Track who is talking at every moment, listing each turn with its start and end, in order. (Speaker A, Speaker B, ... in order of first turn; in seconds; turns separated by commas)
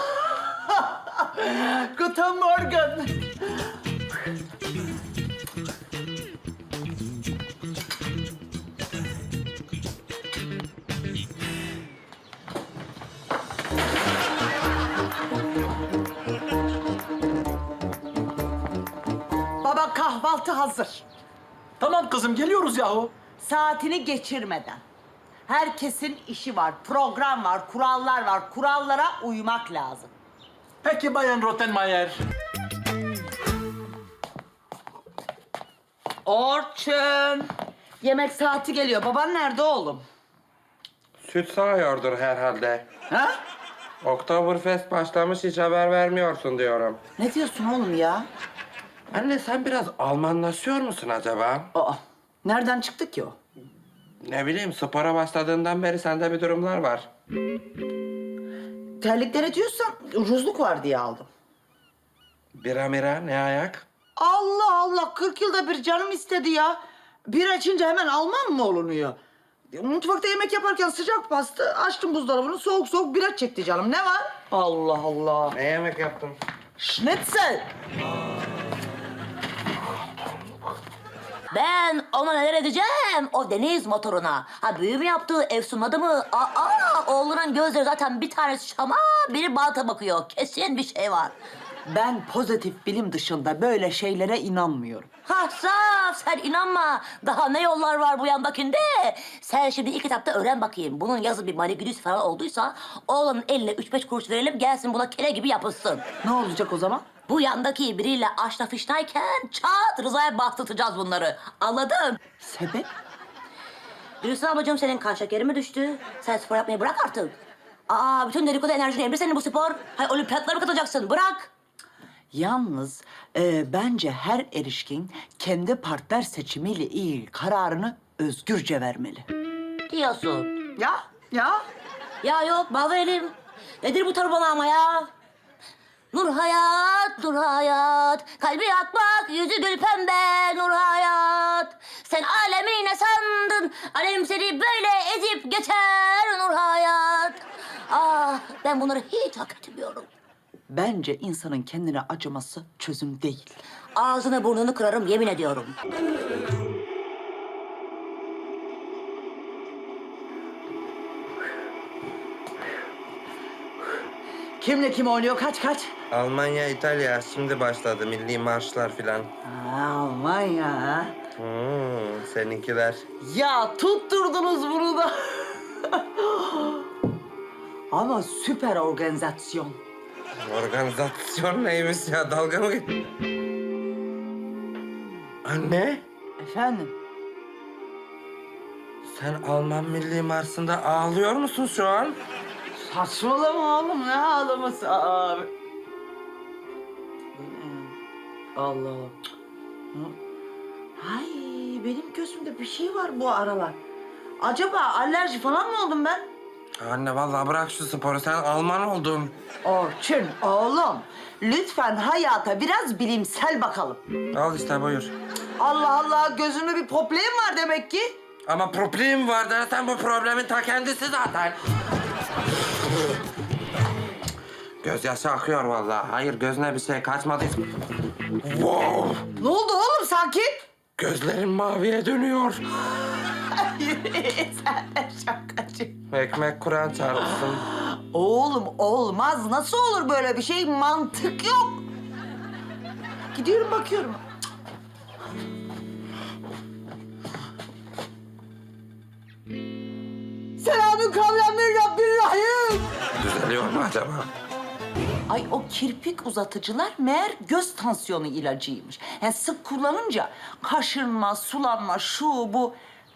Speaker A: 0.3-3.1, Speaker A: 19.6-21.1, Speaker B: 21.8-23.1, Speaker A: 23.4-24.8, Speaker A: 25.5-30.1, Speaker B: 30.8-32.2, Speaker A: 36.3-37.5, Speaker A: 38.0-40.0, Speaker C: 41.2-42.8, Speaker C: 44.0-47.0, Speaker A: 47.2-48.3, Speaker C: 49.1-51.7, Speaker A: 51.7-53.4, Speaker C: 54.2-57.1, Speaker A: 59.0-61.3, Speaker C: 62.6-63.9, Speaker A: 64.2-69.2, Speaker A: 69.7-75.6, Speaker C: 75.5-76.3, Speaker A: 76.8-77.7, Speaker D: 81.5-91.3, Speaker A: 91.9-95.1, Speaker D: 95.3-106.0, Speaker A: 106.2-107.1, Speaker D: 107.3-112.2, Speaker A: 112.4-112.9, Speaker D: 114.2-117.3, Speaker D: 117.9-121.5, Speaker A: 122.3-129.3, Speaker D: 129.9-130.5, Speaker A: 130.8-131.6, Speaker D: 132.2-135.1, Speaker D: 136.1-150.1, Speaker A: 150.7-153.6, Speaker D: 153.9-155.7, Speaker A: 164.6-165.9, Speaker C: 166.1-169.3, Speaker A: 169.4-171.1, Speaker C: 171.4-173.0, Speaker A: 173.2-176.8, Speaker A: 177.9-179.8, Speaker C: 180.5-182.9, Speaker C: 185.5-186.0, Speaker A: 186.4-186.9, Speaker C: 189.2-192.2, Speaker A: 192.8-195.5, Speaker A: 197.4-198.0, Speaker A: 198.6-199.2, Speaker A: 201.0-203.8, Speaker A: 204.4-206.3, Speaker C: 206.8-209.3, Speaker A: 209.6-214.0, Speaker C: 214.3-215.1, Speaker A: 215.6-218.2, Speaker C: 218.5-221.6, Speaker C: 224.8-227.6, Speaker C: 228.4-229.2, Speaker A: 229.4-230.6, Speaker C: 231.0-232.6, Speaker A: 233.5-236.0, Speaker C: 236.1-237.6, Speaker A: 237.7-241.8, Speaker A: 243.3-244.2, Speaker A: 250.6-252.8, Speaker C: 253.2-254.3, Speaker A: 255.3-262.8